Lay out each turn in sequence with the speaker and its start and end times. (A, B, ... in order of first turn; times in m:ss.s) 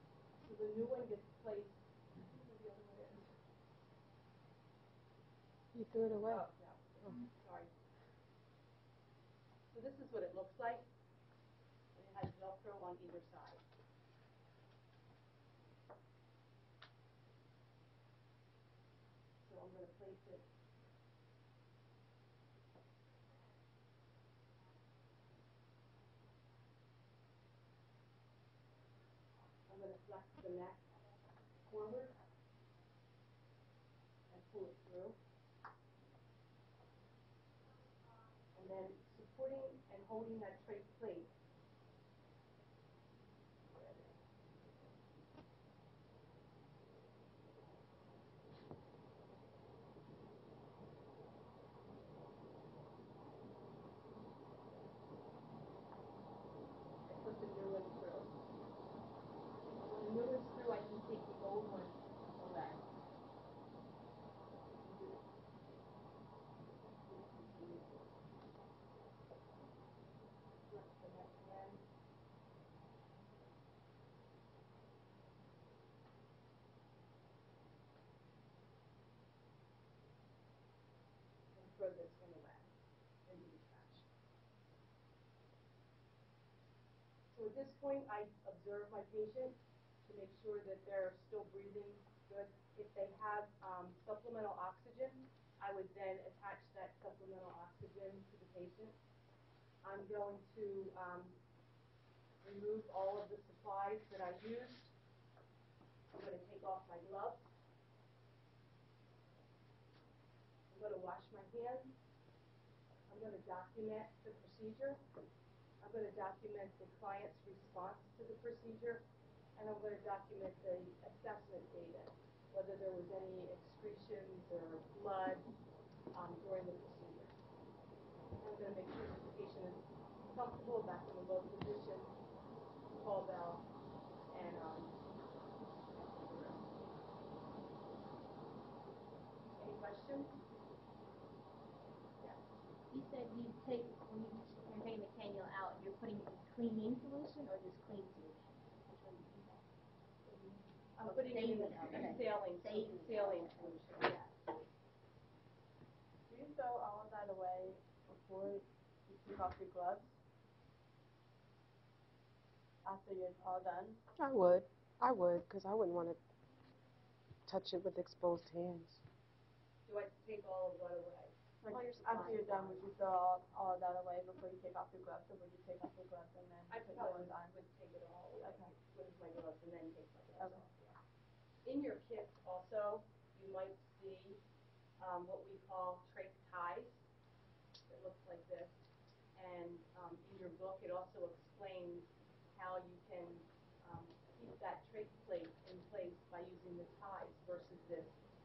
0:00.4-0:03.3 A
0:05.7-0:06.5 B
0:06.2-0:07.7 A
0:09.7-0:10.8 A
0:11.9-0:13.6 A
0:19.4-0:20.4 A
0:29.7-0:30.9 A
0:31.6-0:32.2 A
0:34.3-0:35.2 A
0:38.5-0:41.3 A
0:43.7-0:44.2 A
0:57.1-0:58.3 A
0:59.7-1:02.8 A
1:04.8-1:05.2 A
1:06.8-1:08.0 A
1:10.7-1:11.8 A
1:21.5-1:22.7 A
1:23.3-1:24.1 A
1:27.3-1:39.0 A
1:39.8-1:41.4 A
1:42.4-1:44.9 A
1:46.1-1:47.5 A
1:50.7-1:52.0 A
1:53.1-1:55.0 A
1:55.8-1:59.0 A
1:59.6-2:05.5 A
2:06.1-2:07.3 A
2:08.4-2:12.1 A
2:13.0-2:13.6 A
2:14.3-2:15.0 A
2:15.9-2:16.7 A
2:19.6-2:20.4 A
2:22.9-2:29.6 C
2:31.0-2:34.5 A
2:31.1-2:33.7 C
2:36.3-2:40.1 D
2:42.8-2:44.0 D
2:44.2-2:46.2 B
2:47.5-2:49.0 B
2:49.9-2:52.8 A
2:51.6-2:57.6 D
2:56.7-3:01.0 A
2:58.4-2:58.7 D
3:00.4-3:00.6 D
3:01.6-3:04.4 A
3:05.0-3:07.0 A
3:07.9-3:08.8 A
3:09.4-3:18.2 A